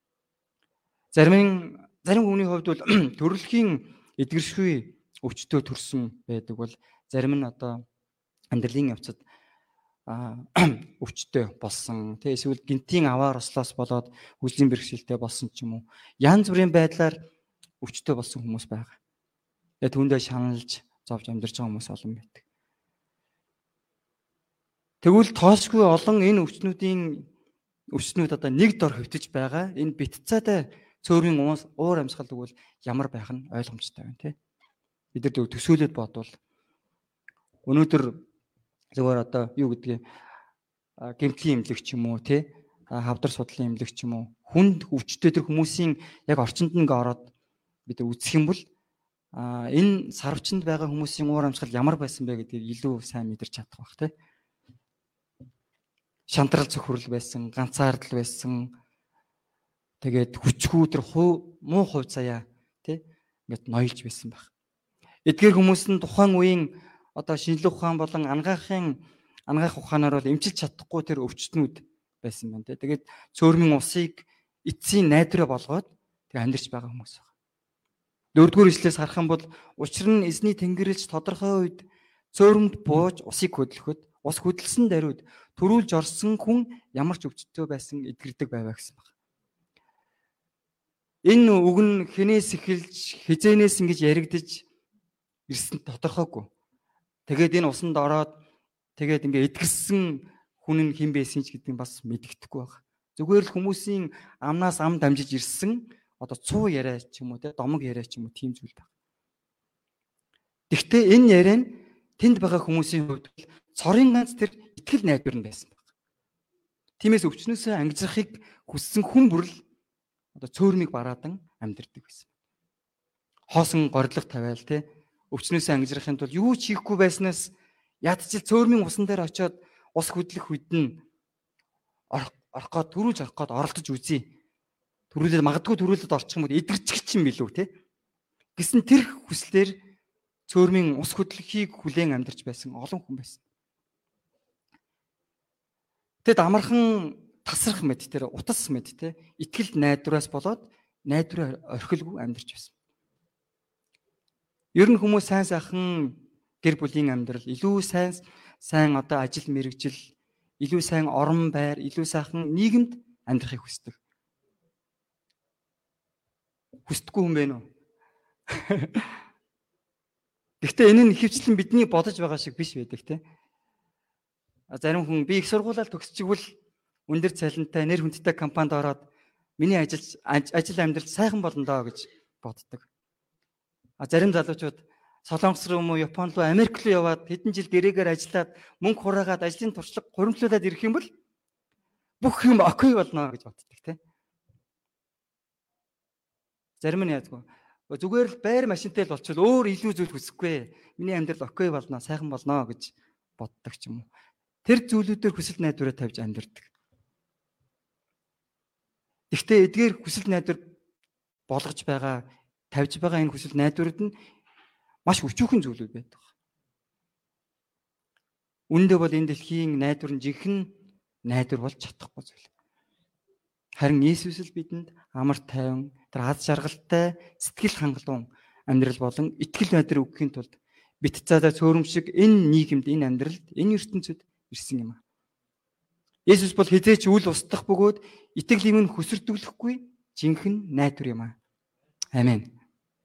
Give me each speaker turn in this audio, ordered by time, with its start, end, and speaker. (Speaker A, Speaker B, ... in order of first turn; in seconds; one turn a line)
Speaker A: 1.1-7.8
Speaker A: 8.5-9.2
Speaker A: 10.1-17.2
Speaker A: 17.8-19.0
Speaker A: 19.8-22.4
Speaker A: 25.0-27.3
Speaker A: 27.9-34.4
Speaker A: 35.1-36.3
Speaker A: 37.7-38.2
Speaker A: 38.9-40.0
Speaker A: 41.0-47.3
Speaker A: 47.9-48.6
Speaker A: 49.3-54.1
Speaker A: 56.3-58.7
Speaker A: 60.0-64.5
Speaker A: 65.3-77.3
Speaker A: 78.3-89.1
Speaker A: 91.2-94.7
Speaker A: 95.5-96.5
Speaker A: 97.3-98.4
Speaker A: 99.0-108.9
Speaker A: 110.7-115.8
Speaker A: 117.0-119.5
Speaker A: 120.4-122.3
Speaker A: 123.5-127.5
Speaker A: 128.0-131.0
Speaker A: 132.1-134.3
Speaker A: 135.1-137.7
Speaker A: 138.6-139.8
Speaker A: 140.5-143.4
Speaker A: 146.2-152.7
Speaker A: 154.8-164.0
Speaker A: 166.9-167.6
Speaker A: 168.5-169.1
Speaker A: 170.6-173.2
Speaker A: 174.7-176.5
Speaker A: 177.1-182.9
Speaker A: 184.0-191.1
Speaker A: 192.2-194.0
Speaker A: 196.8-204.1
Speaker A: 204.7-206.7
Speaker A: 209.3-210.6
Speaker A: 211.5-214.1
Speaker A: 215.1-216.2
Speaker A: 218.7-220.7
Speaker A: 221.3-222.5
Speaker A: 223.8-235.0
Speaker A: 236.3-241.4
Speaker A: 242.1-242.5